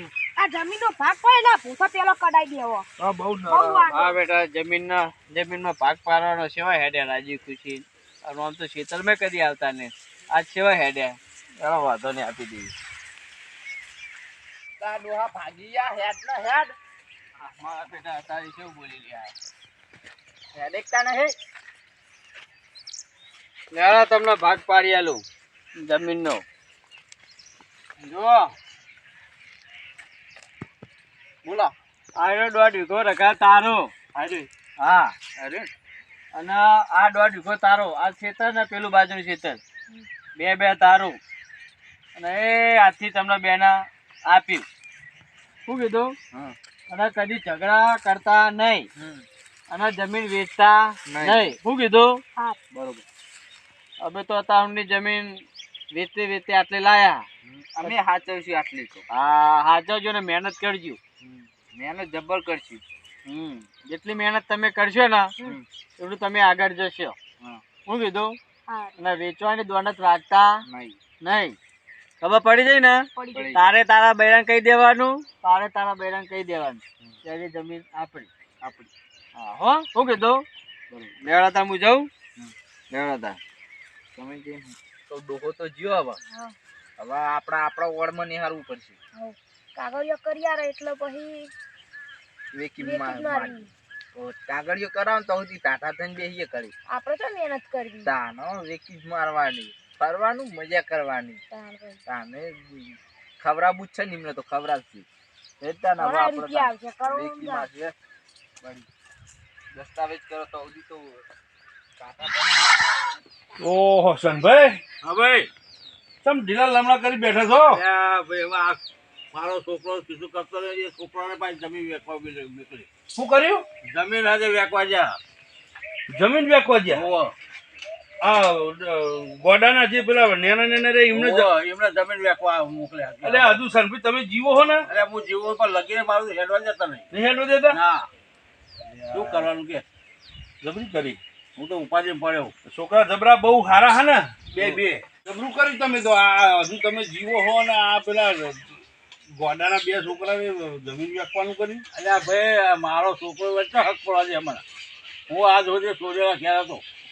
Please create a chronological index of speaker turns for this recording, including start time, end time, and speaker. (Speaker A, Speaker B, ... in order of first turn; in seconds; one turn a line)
Speaker A: 0.3-2.9
Speaker B: 3.0-3.9
Speaker A: 3.5-4.2
Speaker C: 3.9-12.7
Speaker B: 14.8-16.7
Speaker C: 17.4-19.3
Speaker B: 20.5-21.4
Speaker C: 23.7-25.2
Speaker C: 25.8-26.4
Speaker C: 28.0-28.5
Speaker C: 32.2-35.1
Speaker B: 35.4-35.7
Speaker C: 36.3-39.6
Speaker C: 40.4-41.2
Speaker C: 42.1-44.6
Speaker C: 45.6-46.1
Speaker C: 46.9-48.9
Speaker B: 49.0-49.2
Speaker C: 49.7-52.2
Speaker B: 51.1-51.5
Speaker B: 52.7-53.0
Speaker C: 54.0-57.2
Speaker B: 57.4-59.0
Speaker C: 59.1-61.0
Speaker B: 61.2-62.8
Speaker C: 63.2-65.3
Speaker C: 66.0-67.2
Speaker C: 67.8-68.3
Speaker A: 68.7-69.0
Speaker C: 69.0-70.6
Speaker B: 70.7-71.0
Speaker C: 71.2-71.6
Speaker C: 72.2-78.3
Speaker A: 73.1-73.5
Speaker B: 73.3-73.7
Speaker B: 78.6-78.9
Speaker C: 79.3-80.4
Speaker C: 81.2-82.1
Speaker C: 82.9-83.4
Speaker B: 84.2-86.2
Speaker A: 86.3-86.5
Speaker B: 87.0-89.0
Speaker A: 89.2-91.5
Speaker B: 92.5-96.7
Speaker A: 92.8-93.7
Speaker A: 96.9-98.1
Speaker B: 98.0-101.4
Speaker A: 101.5-102.0
Speaker B: 102.0-105.1
Speaker B: 105.6-107.9
Speaker A: 106.0-107.7
Speaker B: 109.7-111.2
Speaker B: 112.0-112.9
Speaker D: 113.6-114.8
Speaker E: 115.0-115.5
Speaker D: 116.2-117.8
Speaker E: 117.7-118.8
Speaker E: 119.3-122.9
Speaker D: 123.1-123.6
Speaker E: 123.8-125.2
Speaker D: 126.1-127.0
Speaker E: 126.9-127.3
Speaker D: 128.2-131.5
Speaker E: 131.1-133.6
Speaker D: 133.2-134.9
Speaker E: 134.8-137.1
Speaker D: 137.1-137.8
Speaker E: 137.7-138.1
Speaker E: 139.1-139.8
Speaker D: 140.6-141.2
Speaker E: 141.6-142.5
Speaker D: 142.7-151.8
Speaker E: 144.5-145.0
Speaker E: 151.9-154.6
Speaker E: 155.3-156.8